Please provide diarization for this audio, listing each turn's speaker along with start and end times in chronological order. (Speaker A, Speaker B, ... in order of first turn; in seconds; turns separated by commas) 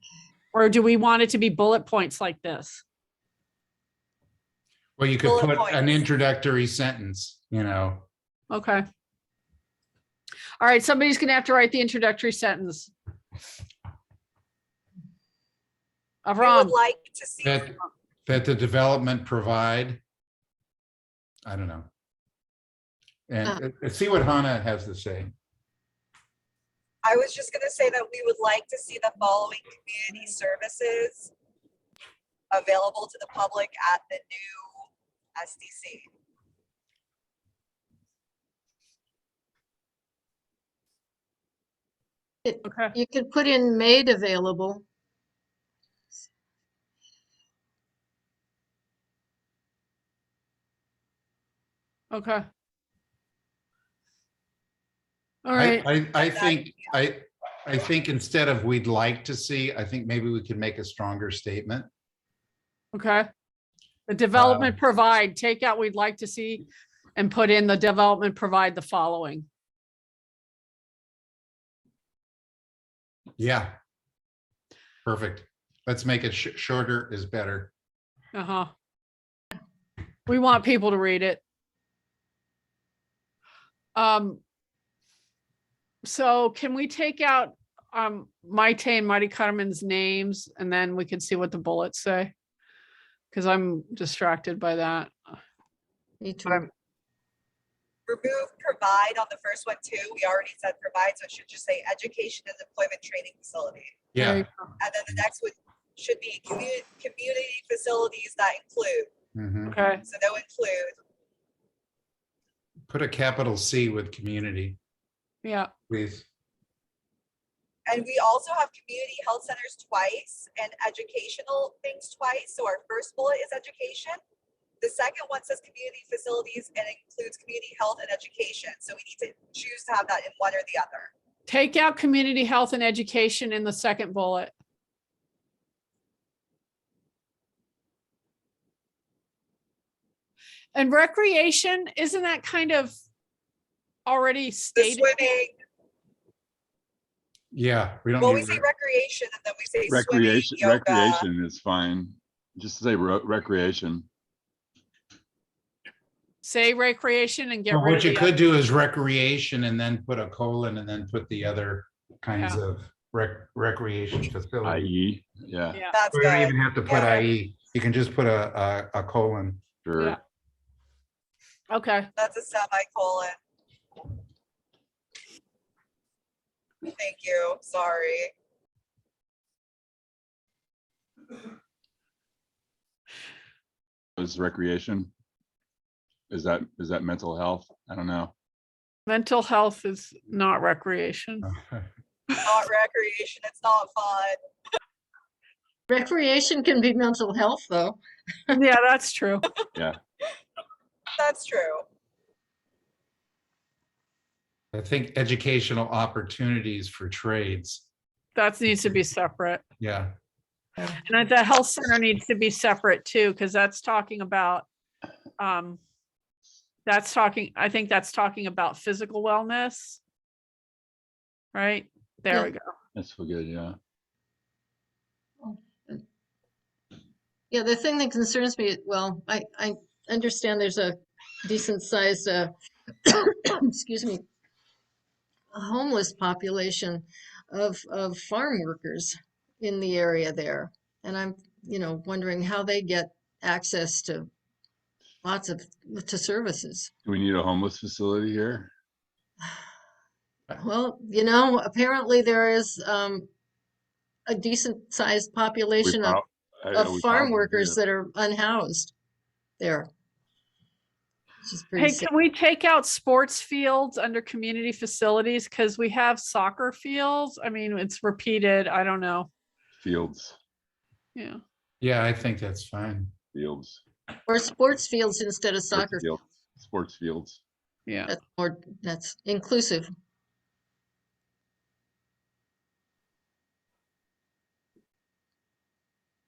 Speaker A: 0.5-2.8, Speaker B: 5.0-8.1, Speaker C: 5.2-6.0, Speaker A: 8.5-8.8, Speaker A: 10.6-12.9, Speaker A: 16.2-16.7, Speaker C: 16.4-17.7, Speaker B: 17.4-17.7, Speaker B: 18.2-20.0, Speaker B: 21.4-21.9, Speaker B: 23.3-25.3, Speaker C: 27.0-31.3, Speaker C: 32.5-34.8, Speaker C: 35.4-36.1, Speaker D: 42.4-44.8, Speaker A: 42.6-42.9, Speaker A: 52.1-52.4, Speaker A: 55.4-55.9, Speaker B: 55.5-61.9, Speaker C: 56.1-56.7, Speaker A: 62.9-63.3, Speaker A: 64.1-66.6, Speaker B: 64.3-64.8, Speaker A: 67.2-69.5, Speaker B: 73.4-73.8, Speaker B: 75.0-77.7, Speaker A: 78.3-78.7, Speaker A: 80.3-81.4, Speaker A: 83.9-84.4, Speaker A: 86.0-92.3, Speaker A: 93.3-95.1, Speaker D: 96.2-96.7, Speaker C: 98.1-104.0, Speaker B: 104.1-104.5, Speaker A: 104.2-104.5, Speaker C: 104.8-109.1, Speaker B: 109.3-109.8, Speaker A: 109.7-110.0, Speaker C: 110.1-111.0, Speaker B: 112.9-114.8, Speaker A: 115.4-115.7, Speaker B: 115.9-116.2, Speaker C: 117.9-124.2, Speaker C: 124.8-131.1, Speaker A: 131.5-134.5, Speaker A: 140.7-142.9, Speaker A: 144.1-145.1, Speaker C: 144.7-145.5, Speaker B: 147.5-148.6, Speaker C: 148.2-151.2, Speaker E: 149.9-154.1, Speaker A: 156.4-158.3, Speaker B: 157.7-164.8, Speaker E: 164.6-165.8, Speaker C: 165.9-167.3, Speaker B: 166.1-169.6, Speaker E: 169.8-170.2, Speaker A: 171.7-172.1, Speaker C: 172.2-173.4, Speaker C: 176.8-178.3, Speaker E: 184.2-185.1, Speaker E: 186.3-188.3, Speaker A: 189.1-191.5, Speaker B: 191.4-191.9, Speaker C: 192.4-194.4, Speaker D: 195.9-198.6, Speaker A: 198.5-199.5, Speaker C: 201.2-201.8, Speaker B: 204.7-207.8, Speaker A: 208.3-209.6, Speaker B: 209.8-210.1, Speaker A: 211.0-214.7, Speaker A: 215.4-215.8, Speaker A: 216.8-220.0, Speaker A: 221.5-222.7, Speaker E: 222.9-223.8, Speaker D: 225.4-226.0, Speaker D: 227.5-232.5, Speaker D: 233.0-234.2, Speaker D: 235.5-244.3, Speaker D: 245.2-246.9, Speaker E: 247.0-248.7, Speaker D: 250.5-253.3, Speaker D: 254.3-256.2, Speaker E: 255.8-257.8, Speaker D: 256.7-258.9, Speaker D: 259.6-259.9, Speaker D: 261.4-262.1, Speaker A: 261.8-269.3, Speaker E: 269.8-270.4, Speaker A: 271.1-271.4, Speaker B: 271.8-273.1, Speaker E: 273.3-273.8, Speaker D: 274.3-276.1, Speaker E: 275.7-277.4, Speaker A: 277.9-278.1, Speaker D: 278.1-279.9